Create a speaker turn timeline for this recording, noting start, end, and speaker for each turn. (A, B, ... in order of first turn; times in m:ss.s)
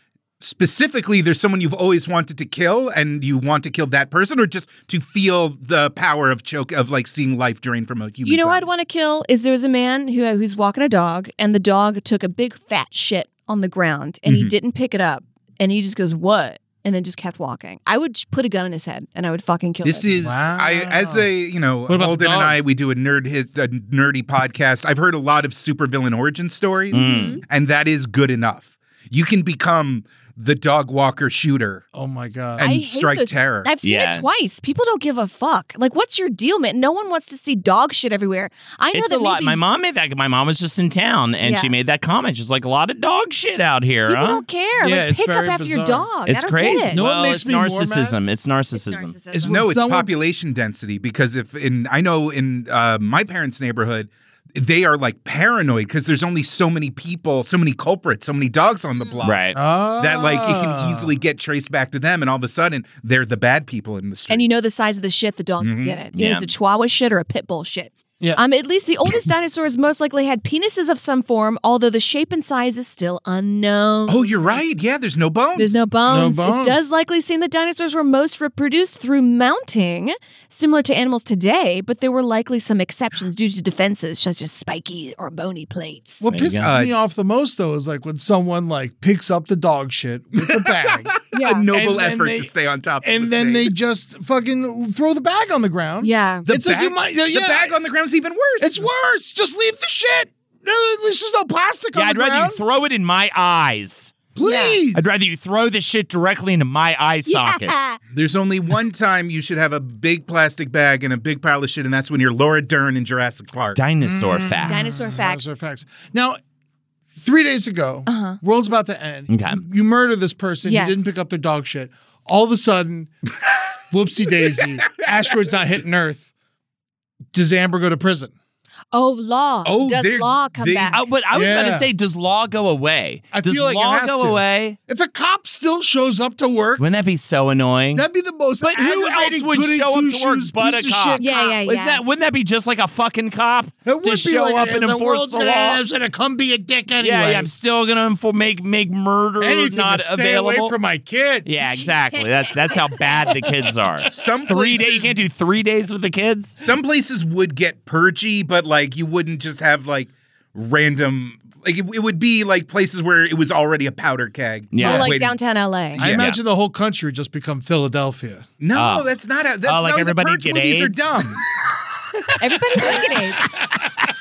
0:00.4-0:08.8 A
0:08.2-0:20.1 B
0:14.2-0:14.5 A
0:19.8-0:31.8 A
0:20.2-0:21.3 C
0:21.9-0:22.6 C
0:26.9-0:27.4 D
0:26.9-0:27.4 B
0:31.9-0:32.6 C
0:32.6-0:33.7 A
0:32.6-0:39.6 B
0:33.8-0:34.3 D
0:38.9-0:44.4 D
0:41.4-0:41.7 B
0:44.0-0:47.0 B
0:44.8-0:46.1 C
0:46.3-0:49.1 D
0:46.9-0:48.2 C
0:48.7-0:49.8 B
0:49.3-0:50.1 C
0:49.4-1:04.5 A
0:59.2-0:59.6 D
0:59.5-1:01.1 C
1:04.3-1:14.6 B
1:05.6-1:06.0 A
1:06.1-1:06.5 D
1:14.1-1:15.8 A
1:15.6-1:26.2 B
1:16.0-1:16.9 C
1:26.2-1:32.5 C
1:26.2-1:26.7 D
1:26.6-1:27.0 A
1:30.4-1:33.7 A
1:31.3-1:31.6 B
1:33.0-1:37.7 C
1:36.0-1:36.5 B
1:36.5-1:38.8 A
1:38.6-1:42.6 C
1:41.9-1:44.2 D
1:44.3-1:45.2 C
1:44.4-1:44.8 B
1:44.9-1:47.9 D
1:47.3-1:48.0 B
1:48.1-1:53.8 A
1:53.8-1:55.1 D
1:54.0-1:56.4 C
1:54.6-1:55.5 B
1:57.1-2:03.1 C
1:58.1-1:58.4 B
1:59.3-1:59.6 D
2:00.6-2:01.1 B
2:03.9-2:06.3 C
2:07.3-2:08.3 C
2:08.9-2:11.0 B
2:09.6-2:11.0 A
2:10.9-2:14.8 D
2:11.3-2:11.9 C
2:13.3-2:16.8 C
2:16.8-2:18.0 D
2:17.9-2:21.5 C
2:18.6-2:25.8 D
2:21.2-2:22.0 B
2:23.8-2:27.5 C
2:27.0-2:30.7 D
2:29.4-2:31.8 C
2:31.4-2:36.6 D
2:31.7-2:33.2 B
2:34.1-2:35.2 A
2:36.6-2:45.4 A
2:44.7-2:45.1 D
2:44.8-2:46.0 B
2:46.0-2:48.5 C
2:46.0-2:46.4 A
2:48.6-2:51.4 A
2:48.7-2:49.1 D
2:49.6-2:51.2 D
2:52.4-2:53.4 B